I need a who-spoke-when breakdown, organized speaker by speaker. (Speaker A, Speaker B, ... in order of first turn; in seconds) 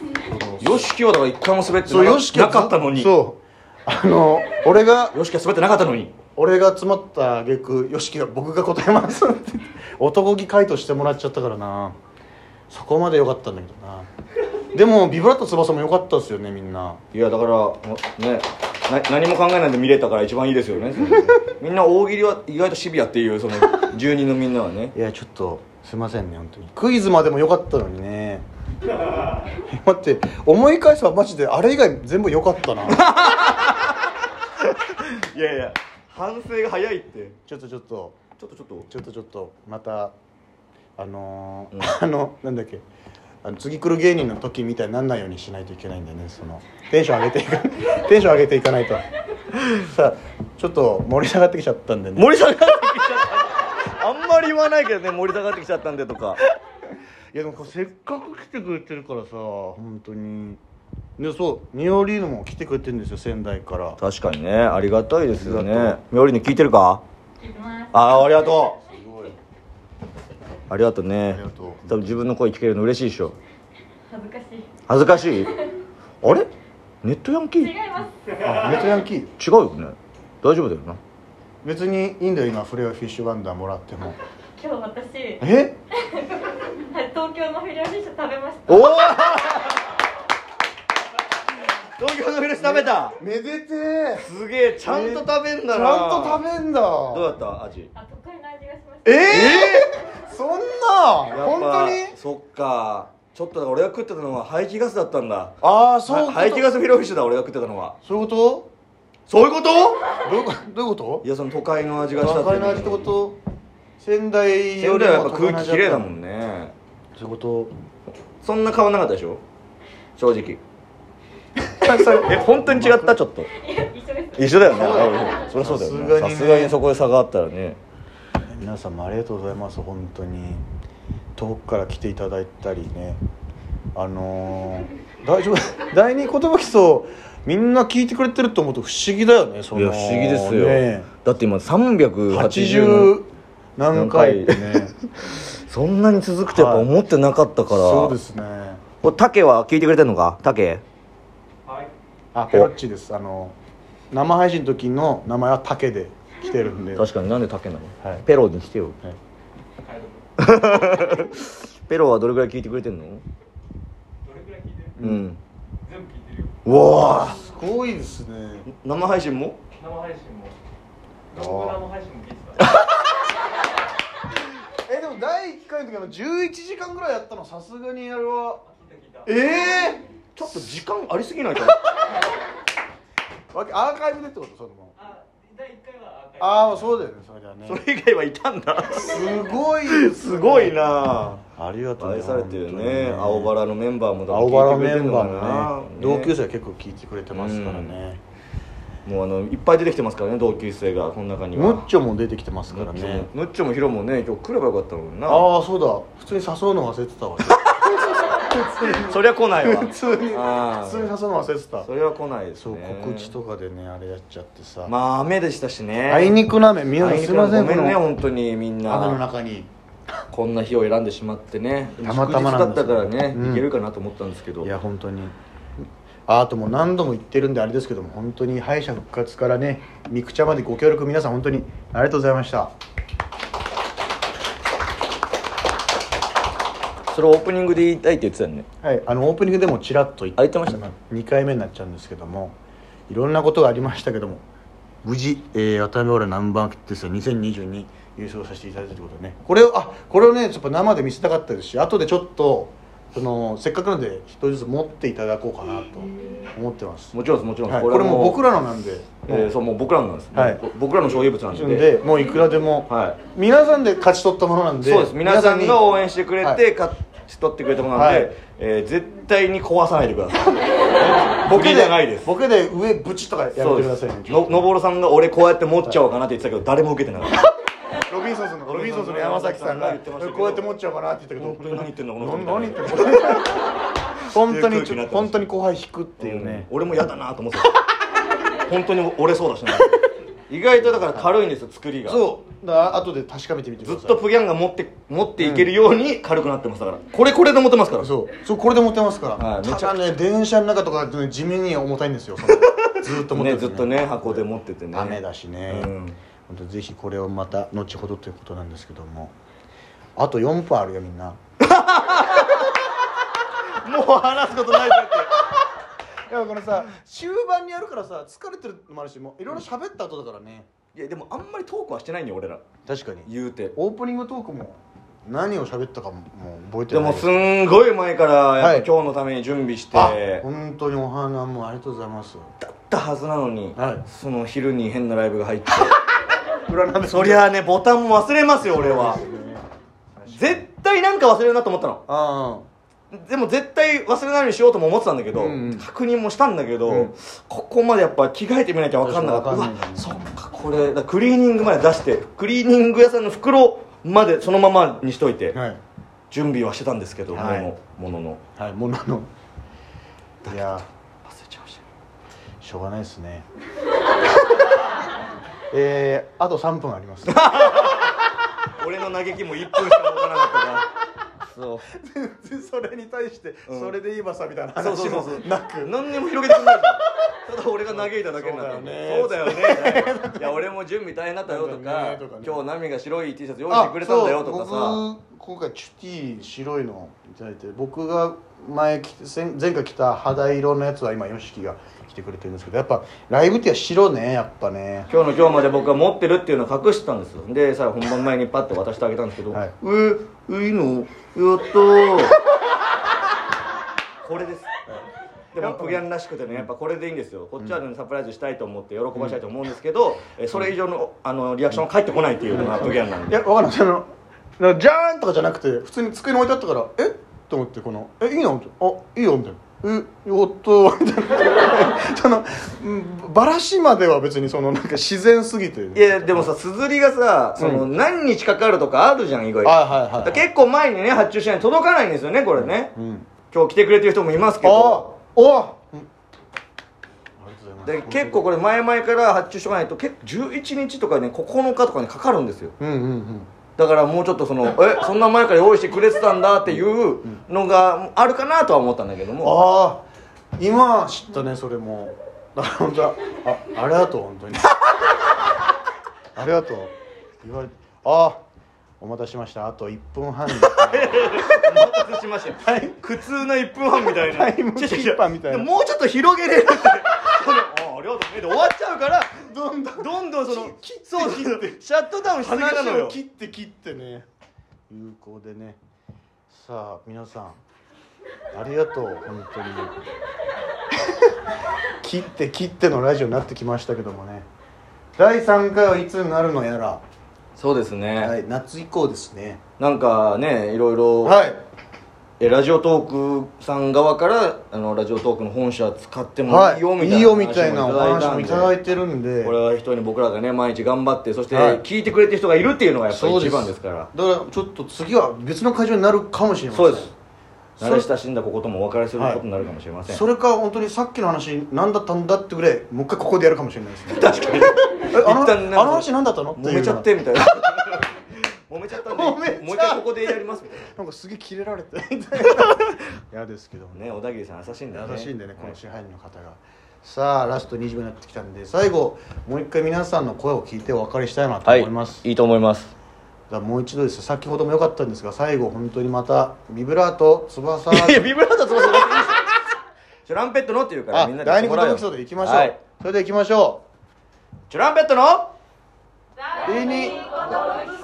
Speaker A: 0.1-0.9, 1.9-5.2, 6.4-12.0, 12.7-14.1, 14.7-17.0, 24.9-28.5, 29.5-33.1, 37.5-38.2, 38.9-40.1, 41.0-42.8, 43.4-49.0, 49.7-52.4, 57.3-60.6, 61.2-64.0, 65.3-66.0, 68.9-69.3, 71.3-72.2, 78.4-79.3, 81.6-84.2, 85.4-85.8, 92.6-94.3, 94.8-97.3, 99.0-102.2, 105.6-106.7, 108.0-108.7, 110.2-111.2, 112.2-113.4, 114.0-116.2, 117.2-117.7, 121.6-123.2, 124.7-126.8, 128.5-130.7, 131.4-133.2, 133.9-141.1, 142.3-144.9, 146.5-146.9, 147.7-148.8, 152.3-153.6, 154.1-157.1, 165.0-165.3, 166.9-168.7, 171.3-171.8, 174.8-178.6, 179.2-180.7, 183.5-184.9, 186.4-187.8, 188.9-190.8, 191.5-193.6, 194.3-198.2, 201.6-203.3, 205.3-211.9, 212.6-214.9, 216.1-218.0, 218.9-219.7, 222.0-223.7, 224.6-225.4, 226.3-232.7, 238.8-242.6, 243.1-244.4, 245.0-257.1, 257.7-259.5, 260.3-260.6, 261.5-265.9, 267.9-268.4, 271.0-274.7, 278.1-283.7, 284.3-286.7, 290.9-291.3, 292.1-294.2, 295.4-295.7, 298.0-305.9, 306.5-309.3, 310.2-311.4, 316.3-320.7, 322.9-327.5, 328.6-328.9, 329.9-332.5, 333.8-334.0, 336.7-337.5, 338.6-339.6, 340.2-340.6, 342.1-342.7, 345.3-345.9, 346.9-347.1, 349.0-350.2, 355.5-355.8, 357.3-357.7, 358.6-359.3, 360.4-360.9, 362.6-363.4, 365.7-367.9, 371.9-377.0, 377.9-380.6, 381.5-382.6, 383.7-395.1, 405.6-406.1, 412.5-414.1, 414.6-426.5, 427.6-427.9, 429.6-430.4, 432.6-433.3, 434.6-436.1, 437.4-438.5, 442.8-443.5, 449.4-450.1, 450.6-454.9, 456.4-458.4, 459.0-463.0, 464.1-465.7, 469.4-471.8, 472.4-474.3, 474.9-475.8, 476.5-477.6, 478.5-480.0, 482.0-484.5, 485.2-487.0, 488.2-489.6, 491.2-491.6, 496.5-499.6, 501.5-501.8, 503.1-507.1, 507.8-508.1, 509.2-509.4, 510.1-514.5, 515.1-517.1, 519.0-524.2, 524.9-532.2, 533.5-538.3, 541.1-543.8, 546.6-547.3
Speaker B: 0.6-3.1, 5.1-6.1, 17.1-24.9, 32.9-34.0, 34.6-37.4, 38.4-38.9, 52.2-56.4, 64.0-67.0, 67.9-68.8, 70.7-73.4, 74.9-75.5, 76.2-76.5, 77.0-77.8, 79.4-81.0, 88.7-89.9, 92.0-93.2, 94.2-96.4, 97.1-97.9, 99.3-99.9, 101.3-105.5, 106.1-108.0, 109.3-110.0, 111.2-113.1, 114.8-116.7, 118.4-119.4, 120.2-120.6, 122.1-123.5, 124.3-127.8, 139.7-143.1, 143.9-148.2, 149.0-150.8, 157.0-159.0, 160.4-163.2, 165.0-165.4, 166.6-167.4, 168.7-169.6, 172.6-173.1, 180.4-181.8, 187.7-189.4, 189.9-191.4, 192.0-196.3, 197.3-198.0, 199.1-201.9, 202.7-205.4, 208.9-211.1, 211.8-213.3, 214.9-216.4, 217.0-219.2, 220.3-224.7, 237.1-238.7, 240.4-240.8, 257.1-258.4, 259.2-261.9, 262.9-263.2, 264.8-270.7, 271.4-272.3, 273.6-277.5, 278.7-280.7, 281.4-283.6, 284.3-285.4, 286.2-287.8, 288.5-289.9, 290.5-292.2, 293.8-298.1, 299.4-300.1, 302.6-306.2, 311.6-312.9, 313.5-315.4, 320.9-322.6, 323.3-323.8, 326.9-330.4, 332.6-336.0, 337.0-339.2, 340.3-342.0, 343.1-355.6, 356.3-358.4, 360.4-361.8, 367.3-370.9, 371.4-371.9, 373.7-373.9, 374.8-385.0, 395.1-402.4, 404.2-404.7, 405.5-413.4, 425.9-432.9, 433.5-435.1, 437.9-442.7, 443.8-449.6, 460.6-473.2, 487.6-488.4, 489.8-491.4, 492.4-498.8, 499.4-504.1, 506.7-507.1, 507.8-510.2, 514.1-520.9, 522.6-522.9, 524.0-525.8, 531.6-532.9, 537.9-539.5, 540.2-542.8, 544.7-545.5
Speaker C: 67.4-68.0, 74.1-74.7, 77.6-78.1, 84.6-85.4, 86.1-89.1, 98.0-99.5, 123.6-125.3
Speaker D: 164.3-164.9, 165.9-166.5, 169.8-170.5, 171.3-172.6, 178.8-179.3, 185.5-186.5